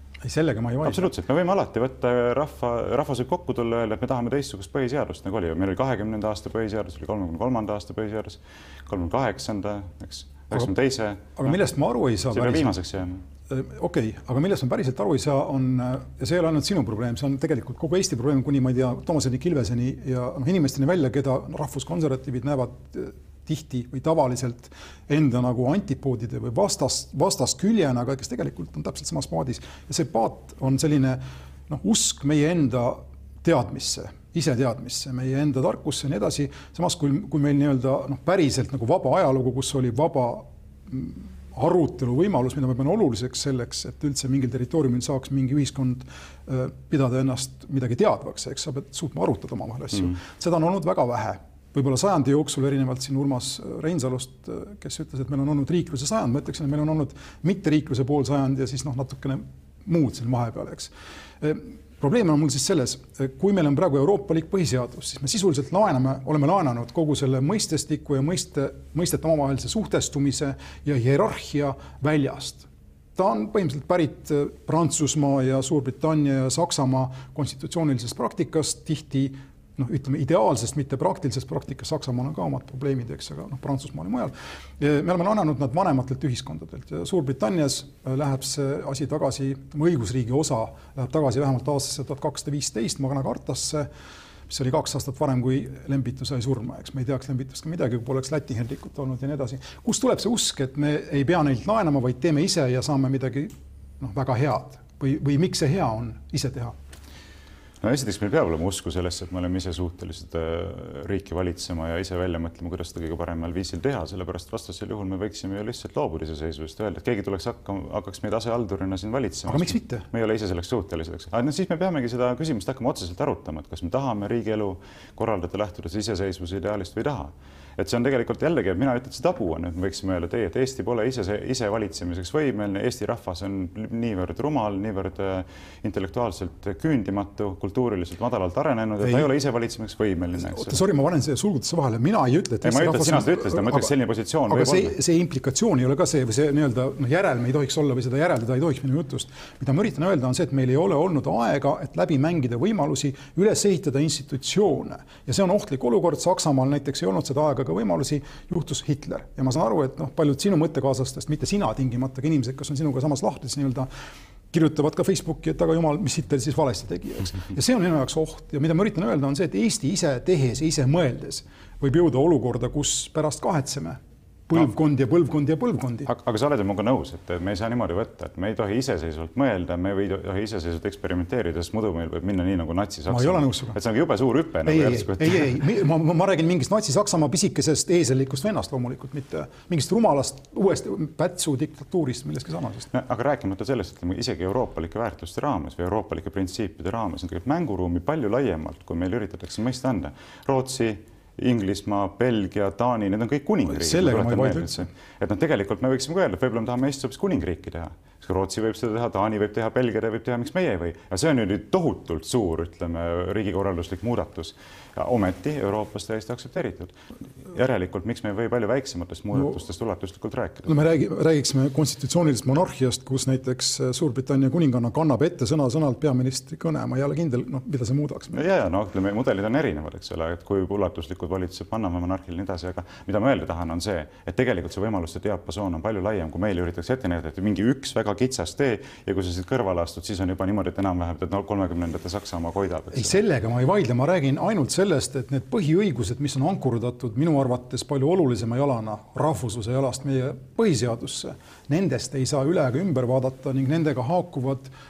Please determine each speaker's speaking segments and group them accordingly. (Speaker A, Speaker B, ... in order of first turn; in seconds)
Speaker A: 0.2-1.1, 11.4-12.8, 13.5-93.9, 94.5-106.8, 119.5-120.1, 139.0-139.3, 140.4-143.9, 144.5-163.9, 164.5-176.1, 183.1-183.8, 184.7-192.9, 203.7-204.9, 220.7-228.4, 242.9-254.7
Speaker B: 0.8-11.6, 12.3-13.2, 107.8-140.8, 142.6-144.9, 176.1-185.6, 192.9-220.8, 228.3-243.2